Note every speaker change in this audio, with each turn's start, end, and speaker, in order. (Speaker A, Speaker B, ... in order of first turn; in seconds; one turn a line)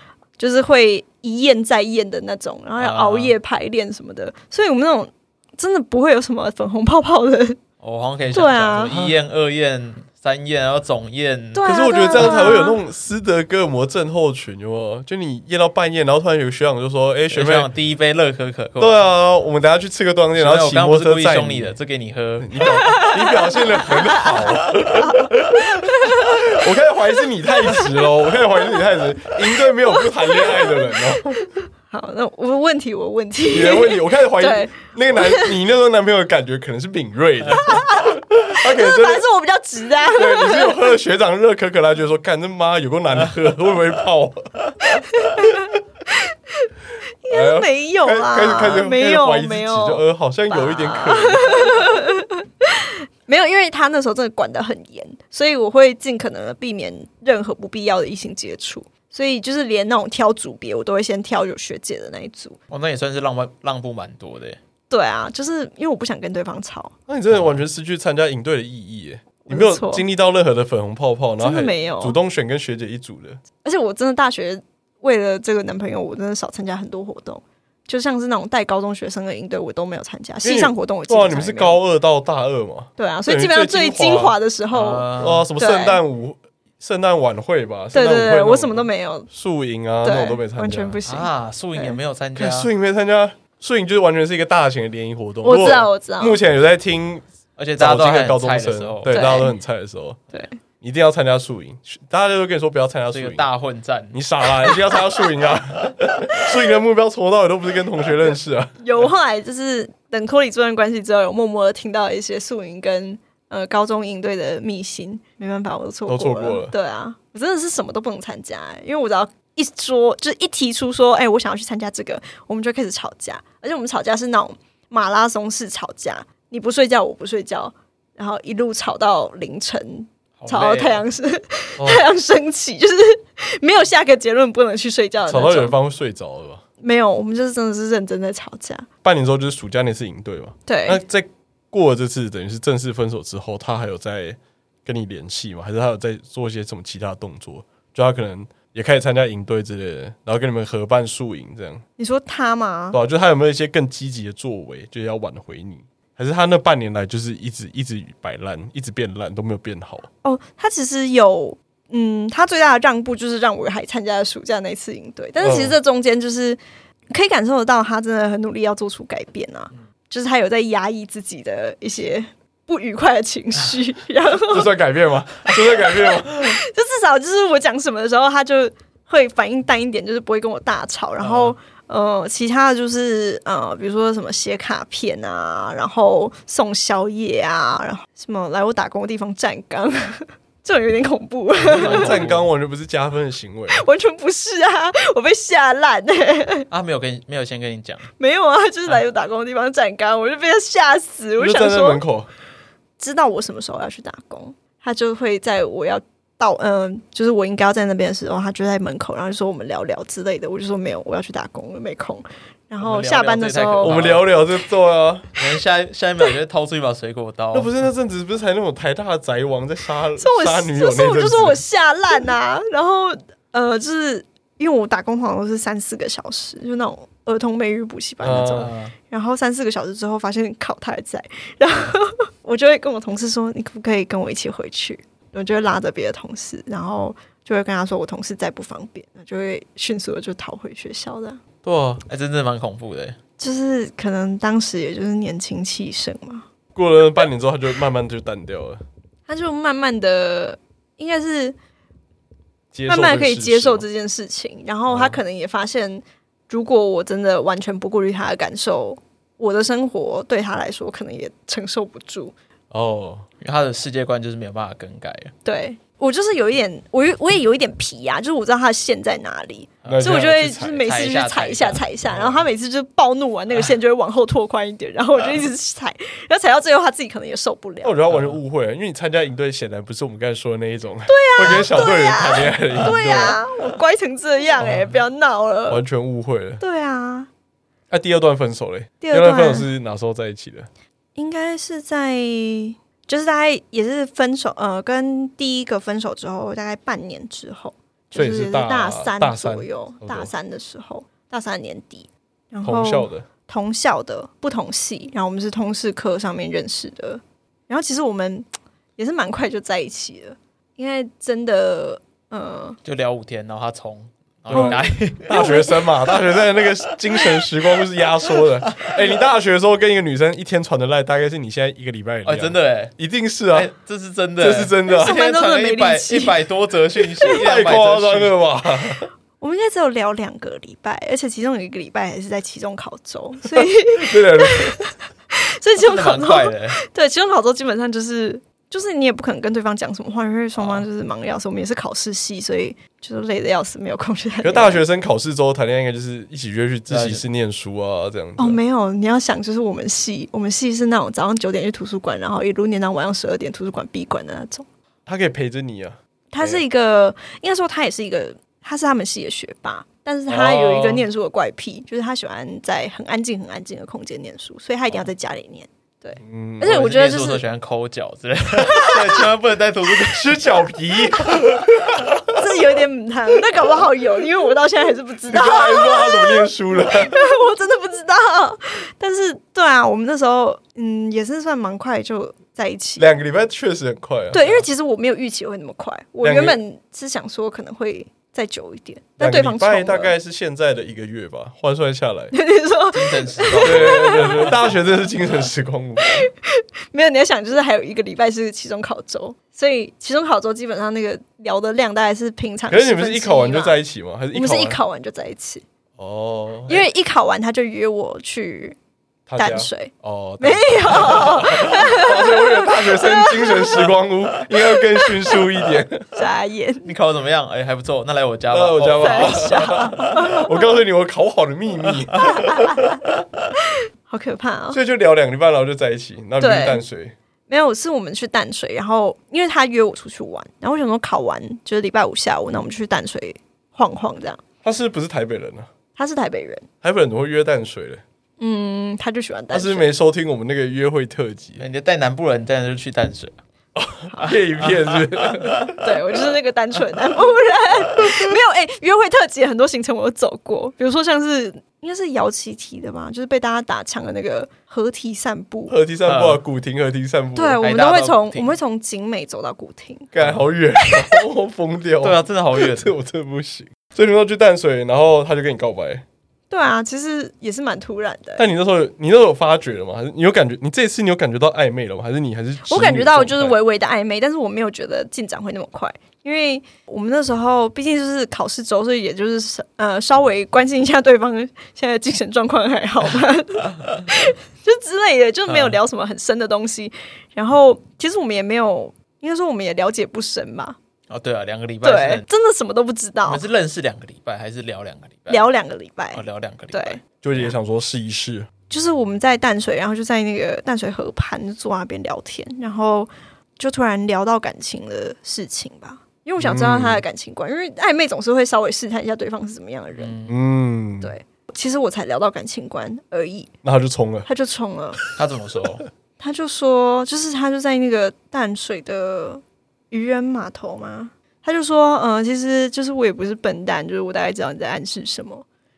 Speaker A: 0.4-7.6
Speaker B: 2.8-3.4
Speaker B: 7.8-12.5
Speaker A: 8.3-8.9
Speaker C: 8.9-9.2
Speaker A: 11.5-12.8
Speaker C: 11.7-17.7
Speaker B: 17.3-19.0
Speaker C: 18.8-21.7
Speaker B: 20.4-22.6
Speaker C: 22.4-31.4
Speaker A: 22.7-25.3
Speaker A: 25.8-26.4
Speaker A: 29.9-30.8
Speaker A: 31.5-35.5
Speaker C: 33.5-39.2
Speaker A: 37.6-41.0
Speaker C: 40.1-44.7
Speaker A: 44.9-45.7
Speaker A: 46.3-46.7
Speaker A: 47.2-62.6
Speaker C: 47.3-52.0
Speaker B: 62.7-64.6
Speaker A: 64.9-66.9
Speaker C: 67.1-73.4
Speaker B: 67.3-67.6
Speaker A: 69.5-70.0
Speaker A: 71.4-72.2
Speaker A: 73.6-81.8
Speaker C: 80.4-84.4
Speaker A: 83.0-86.0
Speaker B: 84.7-85.5
Speaker C: 85.2-91.0
Speaker A: 87.9-89.3
Speaker A: 90.0-92.0
Speaker B: 91.1-92.7
Speaker C: 92.4-97.2
Speaker A: 95.4-96.4
Speaker B: 97.6-99.4
Speaker C: 97.8-100.2
Speaker A: 99.1-99.5
Speaker A: 100.3-100.6
Speaker C: 100.8-103.5
Speaker B: 103.1-104.9
Speaker C: 104.1-108.8
Speaker A: 108.8-135.8
Speaker C: 116.1-116.7
Speaker B: 130.4-131.0
Speaker C: 135.3-136.6
Speaker A: 136.8-138.9
Speaker C: 139.0-151.8
Speaker A: 140.7-141.0
Speaker A: 152.0-153.0
Speaker C: 152.9-160.1
Speaker A: 160.2-166.6
Speaker C: 165.4-165.8
Speaker A: 167.1-174.7
Speaker C: 174.5-176.5
Speaker A: 175.8-192.2
Speaker B: 181.2-181.5
Speaker B: 191.6-192.5
Speaker C: 191.8-193.8
Speaker A: 193.7-196.7
Speaker B: 196.7-198.1
Speaker A: 198.2-202.0
Speaker C: 201.4-202.3
Speaker A: 203.0-214.2
Speaker B: 212.8-214.3
Speaker C: 213.8-215.3
Speaker B: 215.4-217.7
Speaker C: 217.5-221.6
Speaker A: 220.2-241.4
Speaker C: 228.2-228.7
Speaker B: 228.2-228.9
Speaker C: 241.6-242.0
Speaker B: 242.1-243.2
Speaker A: 243.4-246.4
Speaker C: 246.8-248.8
Speaker A: 249.3-251.6
Speaker C: 252.7-253.8
Speaker A: 252.9-262.4
Speaker C: 254.9-255.2
Speaker C: 262.7-263.3
Speaker B: 263.4-265.3
Speaker A: 265.4-278.0
Speaker B: 269.8-271.8
Speaker C: 269.9-270.8
Speaker C: 277.8-283.4
Speaker B: 278.1-278.4
Speaker A: 281.1-285.8
Speaker C: 285.7-286.6
Speaker A: 286.6-287.3
Speaker C: 287.9-290.7
Speaker A: 289.0-289.7
Speaker A: 291.2-308.5
Speaker C: 298.1-300.3
Speaker C: 302.6-303.3
Speaker A: 309.0-312.8
Speaker B: 312.9-315.4
Speaker C: 314.5-323.7
Speaker A: 314.5-315.9
Speaker B: 318.7-318.9
Speaker B: 322.2-322.9
Speaker B: 323.5-328.3
Speaker C: 324.4-325.2
Speaker A: 324.9-326.4
Speaker C: 327.3-329.1
Speaker A: 329.4-344.8
Speaker C: 333.9-334.8
Speaker B: 335.8-336.8
Speaker B: 340.6-340.9
Speaker C: 344.4-348.6
Speaker B: 346.9-347.2
Speaker A: 348.4-354.7
Speaker C: 355.1-356.6
Speaker A: 356.3-367.4
Speaker C: 360.3-360.9
Speaker C: 366.2-366.8
Speaker B: 366.6-370.4
Speaker A: 368.6-369.2
Speaker C: 370.1-372.4
Speaker A: 372.3-383.1
Speaker C: 375.3-377.2
Speaker C: 383.0-384.4
Speaker A: 384.3-390.1
Speaker C: 386.2-386.6
Speaker C: 389.2-392.3
Speaker A: 392.3-394.8
Speaker B: 392.9-394.2
Speaker C: 393.6-396.3
Speaker A: 396.2-403.8
Speaker C: 402.7-404.8
Speaker A: 404.3-405.6
Speaker C: 406.0-406.8
Speaker A: 406.7-408.8
Speaker C: 409.3-416.1
Speaker A: 409.4-413.9
Speaker A: 414.7-415.4
Speaker A: 416.1-416.9
Speaker B: 416.9-420.1
Speaker C: 418.5-422.8
Speaker A: 419.0-420.6
Speaker A: 422.2-423.0
Speaker A: 424.1-424.8
Speaker C: 424.7-427.1
Speaker A: 426.4-426.8
Speaker A: 427.5-434.4
Speaker C: 434.6-435.7
Speaker A: 436.0-436.7
Speaker C: 436.8-438.0
Speaker A: 438.4-439.9
Speaker C: 439.5-441.6
Speaker B: 441.6-443.4
Speaker C: 443.8-445.8
Speaker A: 444.1-444.4
Speaker B: 444.3-445.8
Speaker A: 445.8-455.8
Speaker C: 455.7-457.6
Speaker B: 456.1-456.4
Speaker A: 457.4-460.1
Speaker B: 457.6-458.5
Speaker C: 460.1-466.1
Speaker A: 460.9-461.1
Speaker B: 462.0-462.9
Speaker A: 466.5-468.5
Speaker C: 468.4-473.6
Speaker A: 472.6-490.8
Speaker B: 485.5-485.8
Speaker B: 491.1-492.2
Speaker A: 491.8-493.4
Speaker B: 493.2-495.5
Speaker A: 495.3-497.0
Speaker B: 496.1-497.5
Speaker C: 497.2-498.5
Speaker A: 498.7-510.2
Speaker C: 506.4-507.0
Speaker B: 510.0-510.4
Speaker C: 510.3-511.1
Speaker A: 511.0-513.5
Speaker C: 513.6-514.3
Speaker A: 514.3-515.0
Speaker B: 515.1-515.9
Speaker A: 516.2-525.5